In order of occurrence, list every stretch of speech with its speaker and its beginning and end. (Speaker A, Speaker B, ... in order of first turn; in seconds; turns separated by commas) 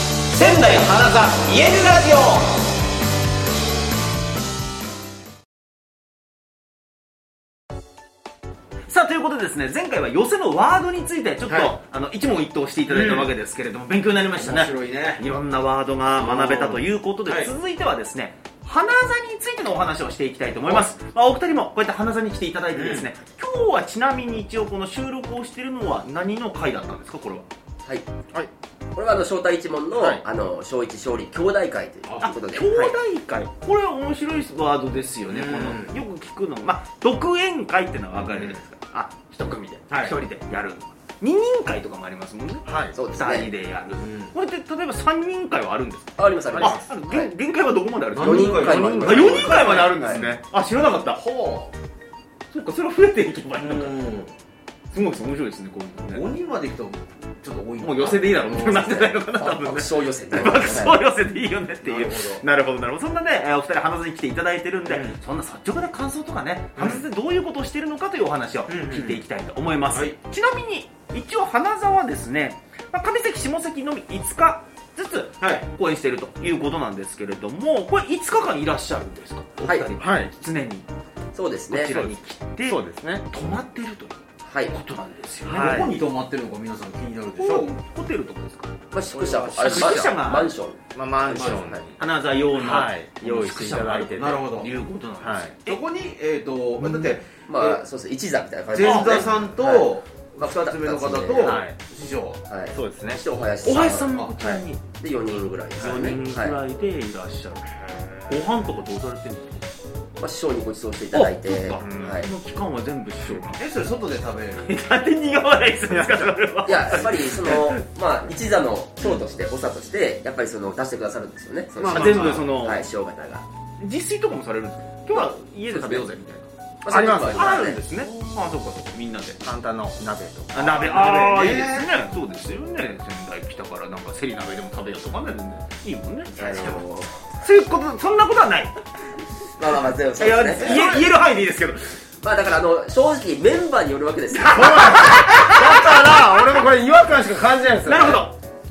Speaker A: 0.3-2.5, Speaker A: 8.9-27.4, Speaker B: 11.5-11.7, Speaker B: 12.9-13.3, Speaker B: 14.3-15.2, Speaker B: 16.2-17.5, Speaker B: 22.7-23.1, Speaker C: 28.9-33.0, Speaker D: 30.0-30.2, Speaker B: 32.1-32.3, Speaker A: 32.2-51.2, Speaker B: 35.3-36.0, Speaker B: 38.2-38.6, Speaker B: 39.9-40.2, Speaker D: 42.6-43.0, Speaker C: 42.9-43.5, Speaker B: 44.0-44.3, Speaker C: 46.2-46.9, Speaker D: 46.5-46.8, Speaker B: 48.1-50.2, Speaker C: 48.2-50.2, Speaker D: 48.5-49.5, Speaker B: 51.1-51.7, Speaker A: 52.5-54.2, Speaker B: 53.6-54.3, Speaker A: 54.9-56.3, Speaker B: 56.1-59.1, Speaker A: 57.8-80.9, Speaker C: 58.8-61.0, Speaker B: 61.8-62.4, Speaker B: 64.9-65.2, Speaker B: 66.8-67.0, Speaker B: 68.7-69.2, Speaker B: 69.9-70.2, Speaker B: 75.4-75.7, Speaker C: 79.6-79.9, Speaker D: 80.0-80.3, Speaker C: 81.3-82.0, Speaker A: 81.7-85.9, Speaker D: 81.9-83.3, Speaker C: 84.5-84.8, Speaker D: 85.5-85.9, Speaker B: 85.5-87.7, Speaker A: 87.4-88.7, Speaker C: 88.9-90.8, Speaker D: 89.1-90.2, Speaker A: 89.5-90.5, Speaker D: 90.9-92.0, Speaker B: 91.3-91.7, Speaker C: 91.4-91.8, Speaker A: 92.0-95.8, Speaker D: 92.5-94.4, Speaker B: 94.2-94.7, Speaker D: 95.2-95.6, Speaker B: 95.7-97.8, Speaker A: 96.8-97.2, Speaker C: 97.5-101.6, Speaker B: 98.7-102.4, Speaker D: 101.4-101.8, Speaker C: 102.5-106.6, Speaker D: 102.7-103.2, Speaker A: 103.6-104.8, Speaker B: 104.0-104.3, Speaker A: 105.8-109.7, Speaker D: 105.8-106.2, Speaker C: 110.2-112.3, Speaker A: 111.1-113.6, Speaker D: 111.8-112.2, Speaker B: 113.5-114.8, Speaker A: 114.6-117.8, Speaker D: 115.9-116.4, Speaker C: 116.7-123.5, Speaker B: 121.8-122.5, Speaker A: 121.9-122.8, Speaker A: 123.8-126.5, Speaker C: 125.2-126.2, Speaker C: 126.8-127.8, Speaker D: 126.9-127.7, Speaker A: 127.3-129.4, Speaker D: 129.4-130.8, Speaker A: 130.5-136.8, Speaker B: 130.6-131.9, Speaker C: 136.3-137.2, Speaker A: 137.4-138.8, Speaker C: 139.6-141.0, Speaker A: 140.2-142.0, Speaker B: 140.6-141.0, Speaker C: 142.2-144.9, Speaker A: 144.3-146.2, Speaker D: 144.5-148.3, Speaker A: 147.8-148.3